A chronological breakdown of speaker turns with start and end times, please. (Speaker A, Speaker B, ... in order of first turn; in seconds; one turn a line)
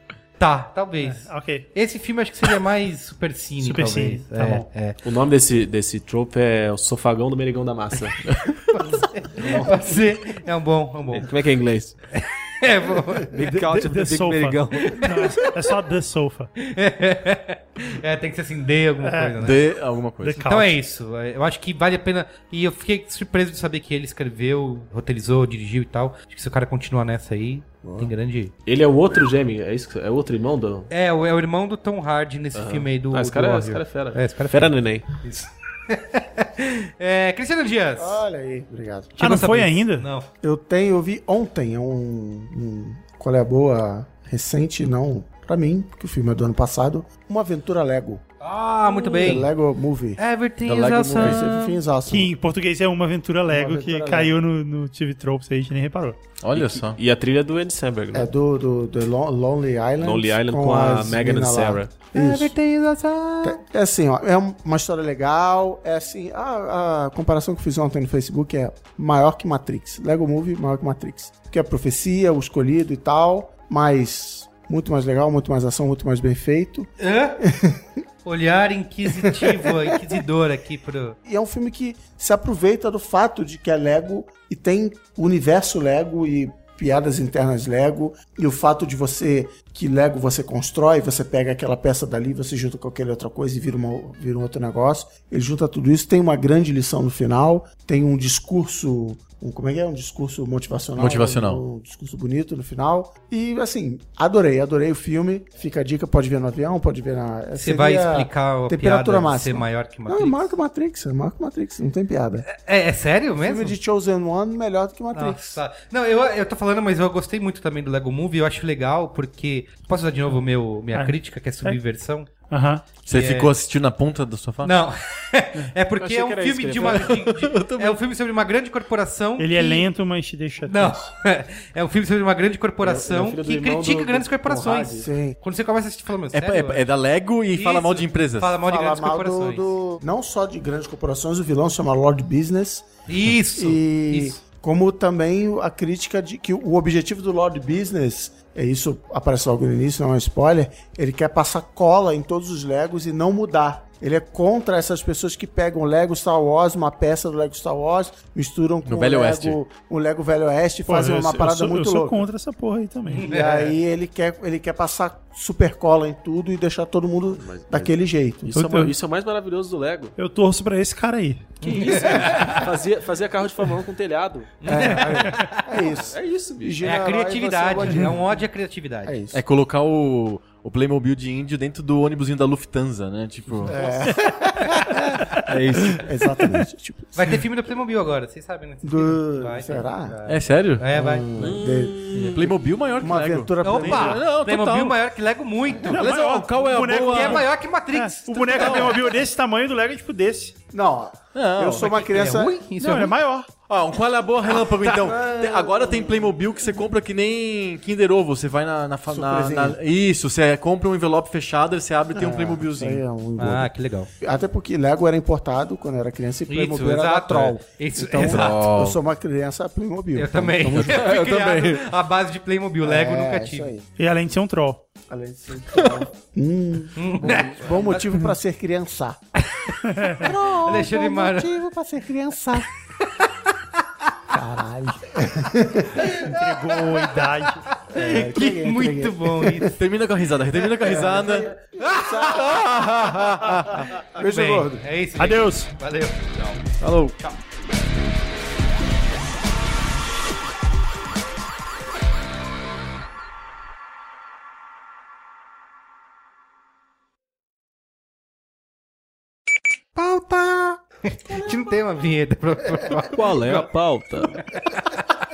Speaker A: 0.4-5.0
Speaker B: 1.0-1.7
Speaker B: 3.6-4.7
Speaker C: 5.0-8.2
Speaker D: 8.3-8.6
Speaker A: 8.7-11.3
Speaker C: 11.1-12.0
Speaker A: 12.1-13.3
Speaker C: 13.2-15.0
Speaker B: 13.4-16.5
Speaker A: 14.8-15.5
Speaker A: 16.6-19.6
Speaker B: 19.0-19.5
Speaker D: 19.4-20.4
Speaker B: 20.2-20.8
Speaker A: 20.4-28.5
Speaker C: 28.7-30.9
Speaker A: 30.9-38.2
Speaker C: 32.5-35.0
Speaker E: 38.0-39.4
Speaker A: 39.2-40.3
Speaker B: 39.2-40.1
Speaker E: 40.4-48.2
Speaker A: 48.4-49.5
Speaker E: 48.9-50.2
Speaker A: 50.2-51.8
Speaker D: 50.6-51.4
Speaker E: 51.1-52.3
Speaker B: 52.1-56.2
Speaker E: 53.5-54.3
Speaker D: 56.4-57.0
Speaker C: 56.5-58.3
Speaker E: 58.1-62.6
Speaker C: 60.0-62.0
Speaker A: 62.1-63.6
Speaker E: 63.4-77.9
Speaker A: 77.0-77.4
Speaker A: 78.2-81.2
Speaker E: 79.1-80.2
Speaker E: 81.2-112.5
Speaker D: 101.0-101.6
Speaker A: 107.6-110.5
Speaker A: 112.5-113.8
Speaker E: 113.4-115.6
Speaker A: 115.1-122.3
Speaker B: 120.9-121.8
Speaker B: 122.5-122.9
Speaker D: 123.0-124.7
Speaker A: 123.1-123.5
Speaker A: 124.6-129.9
Speaker C: 126.0-127.2
Speaker D: 126.8-128.0
Speaker B: 129.4-131.1
Speaker A: 130.7-136.8
Speaker C: 132.8-135.1
Speaker E: 135.0-135.4
Speaker D: 136.3-138.6
Speaker A: 137.6-139.8
Speaker E: 138.7-142.9
Speaker A: 143.1-144.4
Speaker E: 143.5-162.3
Speaker D: 158.9-159.6
Speaker B: 160.9-163.3
Speaker A: 163.1-163.7
Speaker E: 163.2-168.6
Speaker C: 167.4-170.1
Speaker B: 168.6-168.9
Speaker B: 170.2-171.5
Speaker A: 171.6-172.7
Speaker C: 171.6-174.5
Speaker A: 174.6-175.8
Speaker E: 174.7-178.4
Speaker C: 175.9-176.8
Speaker A: 176.8-179.2
Speaker E: 179.0-179.4
Speaker D: 179.3-183.8
Speaker E: 183.7-185.0
Speaker A: 183.7-185.2
Speaker C: 185.5-186.0
Speaker E: 186.0-187.4
Speaker A: 187.2-191.5
Speaker E: 188.8-190.2
Speaker D: 190.3-190.9
Speaker E: 190.9-192.4
Speaker C: 191.4-192.5
Speaker D: 192.2-195.0
Speaker E: 193.0-194.2
Speaker A: 193.6-196.0
Speaker D: 195.9-197.5
Speaker B: 195.9-200.6
Speaker A: 197.0-198.9
Speaker D: 198.6-199.0
Speaker E: 200.7-202.6
Speaker D: 201.3-202.0
Speaker A: 201.8-203.1
Speaker B: 202.8-203.5
Speaker D: 202.9-213.0
Speaker C: 205.0-205.3
Speaker E: 205.2-206.3
Speaker E: 209.1-209.8
Speaker E: 212.2-221.1
Speaker A: 213.4-214.1
Speaker A: 216.5-218.7
Speaker D: 218.2-219.0
Speaker A: 220.2-223.7
Speaker D: 220.7-221.9
Speaker E: 222.8-223.9
Speaker B: 224.0-224.8
Speaker E: 225.1-229.2
Speaker A: 227.0-228.1
Speaker A: 229.5-231.5
Speaker B: 229.9-230.3
Speaker E: 230.2-232.7
Speaker A: 233.1-233.3
Speaker E: 234.3-236.1
Speaker A: 236.1-236.4
Speaker B: 236.2-237.7
Speaker A: 236.9-239.8
Speaker E: 237.9-239.7
Speaker D: 239.8-244.0
Speaker E: 240.8-242.8
Speaker E: 244.0-244.8
Speaker A: 244.2-246.6
Speaker B: 245.2-245.7
Speaker D: 246.8-247.2
Speaker A: 260.0-263.7
Speaker C: 263.1-264.4
Speaker A: 264.3-265.0